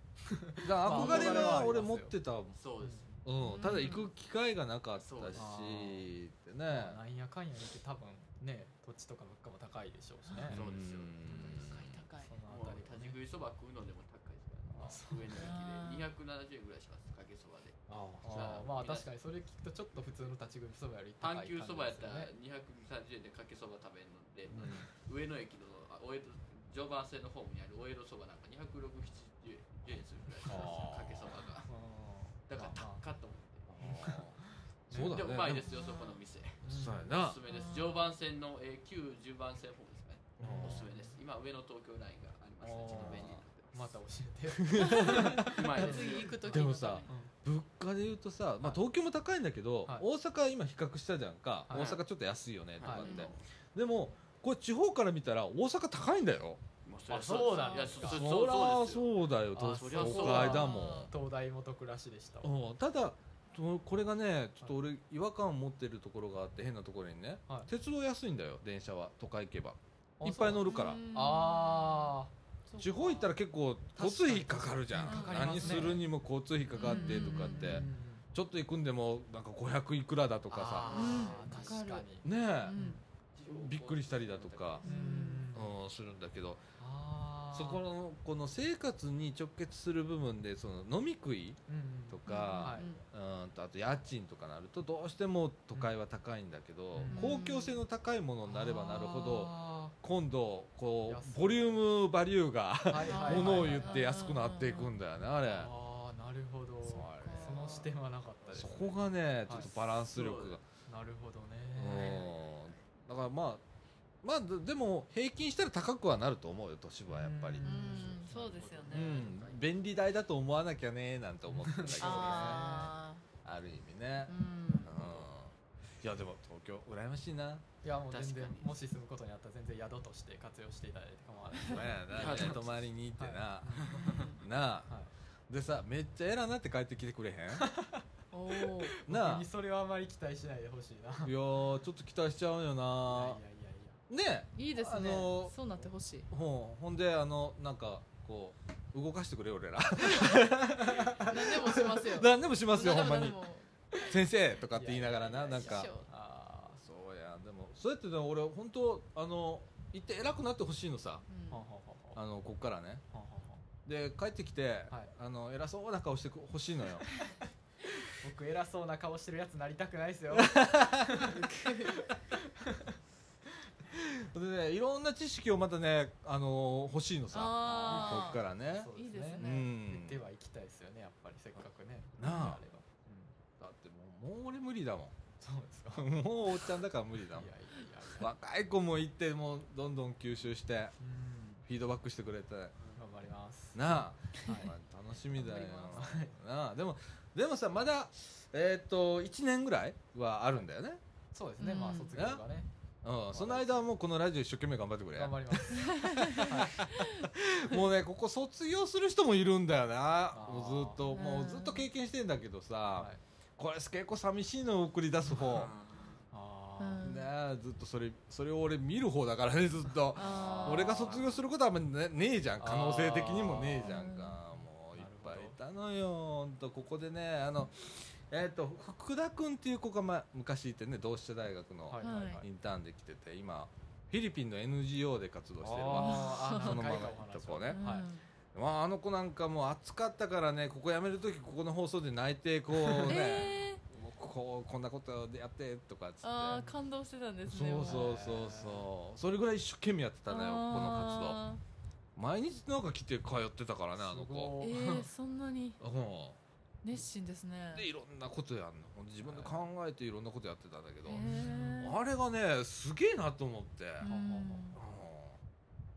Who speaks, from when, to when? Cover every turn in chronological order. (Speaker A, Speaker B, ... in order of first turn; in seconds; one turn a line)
Speaker A: 0.3-2.1
Speaker B: 0.6-2.6
Speaker C: 0.8-1.6
Speaker D: 2.5-3.1
Speaker A: 2.8-3.1
Speaker B: 3.2-7.0
Speaker C: 3.4-4.1
Speaker D: 5.0-5.4
Speaker A: 5.3-6.1
Speaker A: 6.7-10.6
Speaker B: 10.4-12.0
Speaker D: 10.5-11.6
Speaker A: 11.2-11.7
Speaker C: 11.4-12.3
Speaker A: 12.2-13.2
Speaker D: 12.4-19.1
Speaker A: 14.7-15.5
Speaker C: 15.3-16.1
Speaker B: 17.9-18.6
Speaker A: 18.2-22.3
Speaker D: 21.2-31.7
Speaker B: 24.5-24.9
Speaker B: 30.4-31.4
Speaker A: 31.7-33.0
Speaker D: 32.5-33.7
Speaker B: 33.7-34.4
Speaker A: 33.8-35.2
Speaker B: 34.9-35.7
Speaker D: 35.0-44.0
Speaker C: 35.6-36.2
Speaker A: 36.6-37.1
Speaker B: 36.6-37.4
Speaker C: 37.5-38.1
Speaker B: 40.4-40.9
Speaker A: 40.4-41.1
Speaker A: 42.6-47.3
Speaker B: 42.8-43.4
Speaker B: 44.6-45.6
Speaker C: 44.7-47.1
Speaker D: 45.4-46.5
Speaker B: 46.5-56.6
Speaker D: 51.7-52.0
Speaker D: 52.8-53.4
Speaker A: 52.8-53.2
Speaker D: 56.8-60.7
Speaker A: 57.1-58.2
Speaker C: 57.4-57.9
Speaker B: 58.0-61.1
Speaker A: 59.5-62.5
Speaker C: 60.4-61.1
Speaker B: 62.4-71.0
Speaker A: 70.2-72.3
Speaker C: 70.7-72.1
Speaker C: 72.7-73.3
Speaker B: 72.8-81.2
Speaker A: 73.9-76.0
Speaker C: 75.0-76.0
Speaker C: 76.7-77.8
Speaker A: 76.8-78.2
Speaker A: 80.5-83.0
Speaker C: 80.9-82.1
Speaker B: 82.2-82.8
Speaker C: 82.7-83.0
Speaker D: 83.3-84.8
Speaker B: 83.5-84.8
Speaker C: 84.8-85.5
Speaker A: 84.8-85.8
Speaker B: 85.5-86.6
Speaker A: 86.8-87.8
Speaker B: 87.5-105.7
Speaker A: 91.7-92.9
Speaker C: 92.3-93.0
Speaker A: 96.9-97.4
Speaker C: 97.1-97.8
Speaker A: 98.4-100.0
Speaker A: 101.0-101.8
Speaker A: 102.8-104.0
Speaker C: 102.9-104.9
Speaker A: 105.4-109.7
Speaker B: 106.8-107.9
Speaker C: 107.1-107.9
Speaker B: 108.5-110.6
Speaker D: 109.6-110.6
Speaker A: 110.9-112.3
Speaker B: 111.8-113.6
Speaker D: 111.8-112.8
Speaker B: 114.2-118.0
Speaker A: 117.1-119.4
Speaker C: 117.6-119.2
Speaker B: 118.9-122.7
Speaker D: 119.1-119.6
Speaker A: 121.5-122.9
Speaker C: 122.0-123.2
Speaker B: 123.4-127.6
Speaker C: 124.3-124.9
Speaker D: 124.9-125.3
Speaker A: 127.8-134.2
Speaker D: 128.1-128.7
Speaker B: 131.5-134.9
Speaker D: 132.1-132.8
Speaker D: 133.8-134.3
Speaker C: 134.1-134.4
Speaker A: 134.9-135.1
Speaker B: 135.5-137.7
Speaker A: 137.5-141.3
Speaker C: 138.3-138.9
Speaker B: 139.1-139.5
Speaker B: 141.2-143.4
Speaker A: 143.0-144.0
Speaker B: 144.1-145.6
Speaker C: 144.5-146.3
Speaker B: 146.3-153.4
Speaker C: 151.1-153.7
Speaker B: 154.0-155.9
Speaker A: 154.7-156.8
Speaker C: 155.5-156.1
Speaker B: 156.8-161.2
Speaker C: 161.3-161.7
Speaker A: 161.5-162.2
Speaker B: 162.1-163.0
Speaker A: 163.1-163.7
Speaker B: 163.8-167.1
Speaker A: 168.2-171.5
Speaker B: 170.3-171.4
Speaker C: 171.3-172.0
Speaker A: 172.0-172.9
Speaker B: 173.9-180.2
Speaker C: 177.3-179.7
Speaker A: 177.6-183.3
Speaker B: 182.2-182.6
Speaker B: 183.6-185.1
Speaker A: 185.4-186.1
Speaker B: 185.9-187.5
Speaker A: 187.3-188.3
Speaker B: 188.2-190.9
Speaker A: 191.0-191.7
Speaker B: 191.7-192.7
Speaker A: 192.9-194.7
Speaker B: 193.7-201.0
Speaker C: 195.4-196.0
Speaker A: 195.8-196.4
Speaker A: 201.3-202.7
Speaker C: 201.6-202.2
Speaker B: 202.1-202.4
Speaker B: 203.0-215.7
Speaker A: 203.3-203.9
Speaker A: 205.1-206.8
Speaker C: 205.9-207.3
Speaker A: 210.3-211.1
Speaker C: 211.1-211.9
Speaker A: 212.9-213.2
Speaker A: 215.2-215.7
Speaker D: 215.4-216.2
Speaker A: 216.3-217.2
Speaker C: 216.8-217.3
Speaker B: 217.0-237.8
Speaker C: 220.1-221.3
Speaker A: 220.1-221.3
Speaker A: 222.6-224.1
Speaker C: 223.8-224.4
Speaker A: 224.9-225.6
Speaker A: 231.9-232.5
Speaker C: 232.0-232.4
Speaker A: 235.6-238.1
Speaker C: 235.9-237.1
Speaker C: 237.7-238.2
Speaker B: 238.5-246.7
Speaker C: 242.9-243.8
Speaker C: 246.2-248.2
Speaker A: 246.5-246.8
Speaker B: 247.5-251.4
Speaker A: 247.8-248.9
Speaker C: 250.3-251.6
Speaker B: 252.2-254.5
Speaker A: 254.0-255.1
Speaker C: 254.6-255.8
Speaker B: 255.8-256.4
Speaker C: 256.8-257.9
Speaker B: 257.7-264.1
Speaker A: 259.2-259.6
Speaker C: 261.1-262.0
Speaker A: 261.2-261.9
Speaker C: 264.0-264.8
Speaker A: 264.0-264.8
Speaker B: 264.7-265.4